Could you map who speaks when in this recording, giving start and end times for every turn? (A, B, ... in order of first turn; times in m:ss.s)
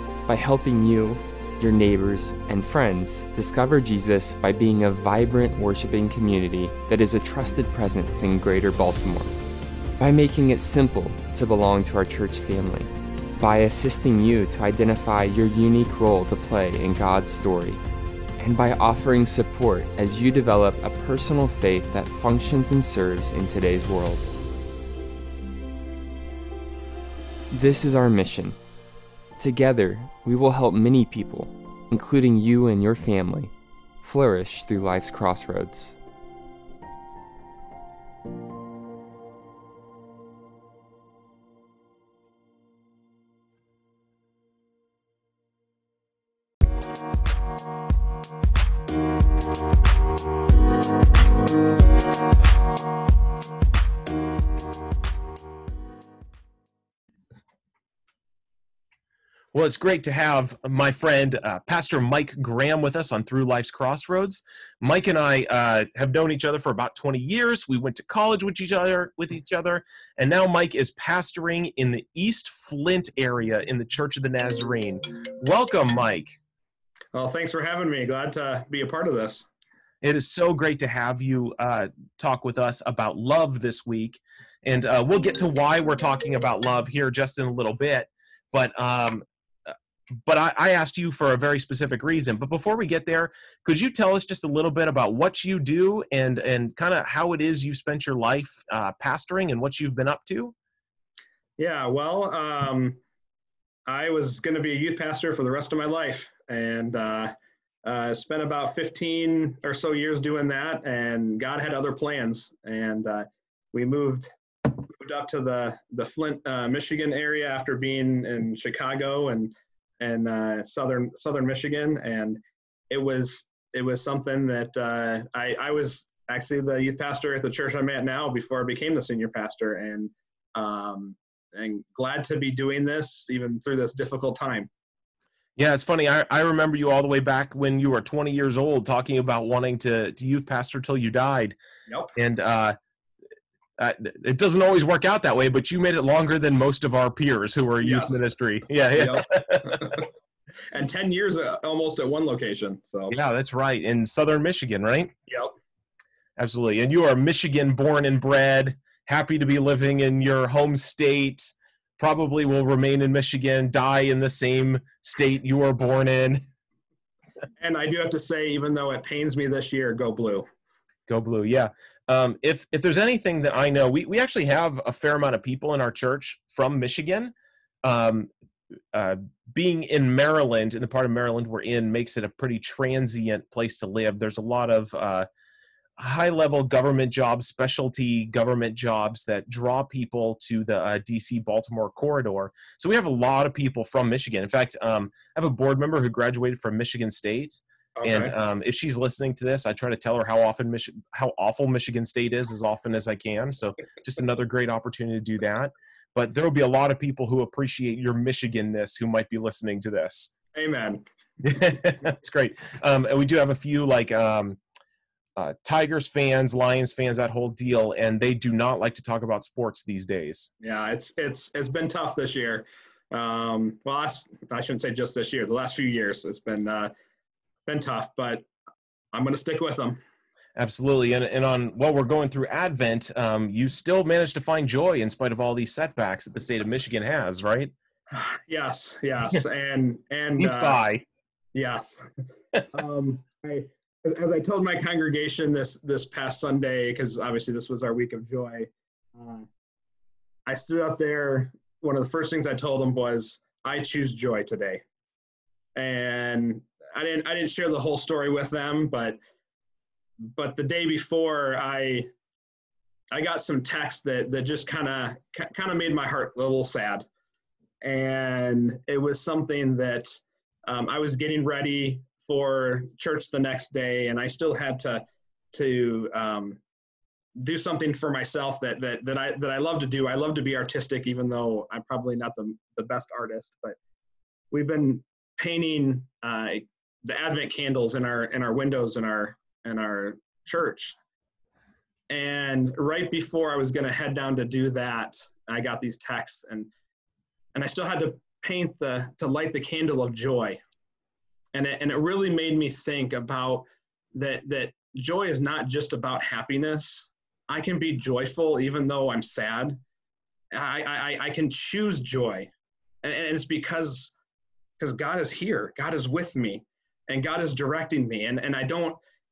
0:00.3-0:09.4 A
0:10.0-0:17.8 A
0:18.4-0:24.3 A
0:27.5-0:28.6 A
0:29.4-0:36.0 A
0:59.5-1:16.4 B
1:17.1-1:19.5 C
1:20.0-1:40.5 B
1:41.6-1:43.0 C
1:43.9-1:47.3 C
1:47.8-2:14.7 C
2:15.6-2:21.6 B
2:21.9-2:22.2 C
2:22.2-2:22.8 B
2:23.8-2:30.0 B
2:27.8-2:28.2 C
2:29.0-2:30.0 C
2:30.7-2:33.2 C
2:33.1-2:35.1 B
2:35.3-2:35.6 C
2:36.4-2:46.4 B
2:47.6-2:50.5 C
2:51.1-2:57.3 B
2:57.8-2:58.3 B
2:58.9-3:05.3 B
3:06.0-3:30.3 B
3:18.0-3:18.3 C
3:30.5-3:31.0 C
3:31.4-3:34.6 B
3:35.4-3:40.5 B
3:40.6-3:46.9 C
3:47.7-3:48.5 C
3:49.1-3:50.0 C
3:50.6-3:57.7 B
3:58.1-4:00.8 C
4:00.4-4:01.0 B
4:01.6-4:02.1 C
4:02.7-4:09.5 C
4:10.5-4:14.8 C
4:15.8-4:19.2 C
4:20.3-4:22.1 C
4:23.1-4:27.1 C
4:27.8-4:36.6 C
4:37.4-4:43.8 C
4:44.5-4:51.0 C
4:52.1-4:56.7 C
4:57.6-5:00.6 C
5:01.5-5:09.8 C
5:10.5-5:12.5 C
5:13.0-5:14.2 C
5:14.8-5:19.0 C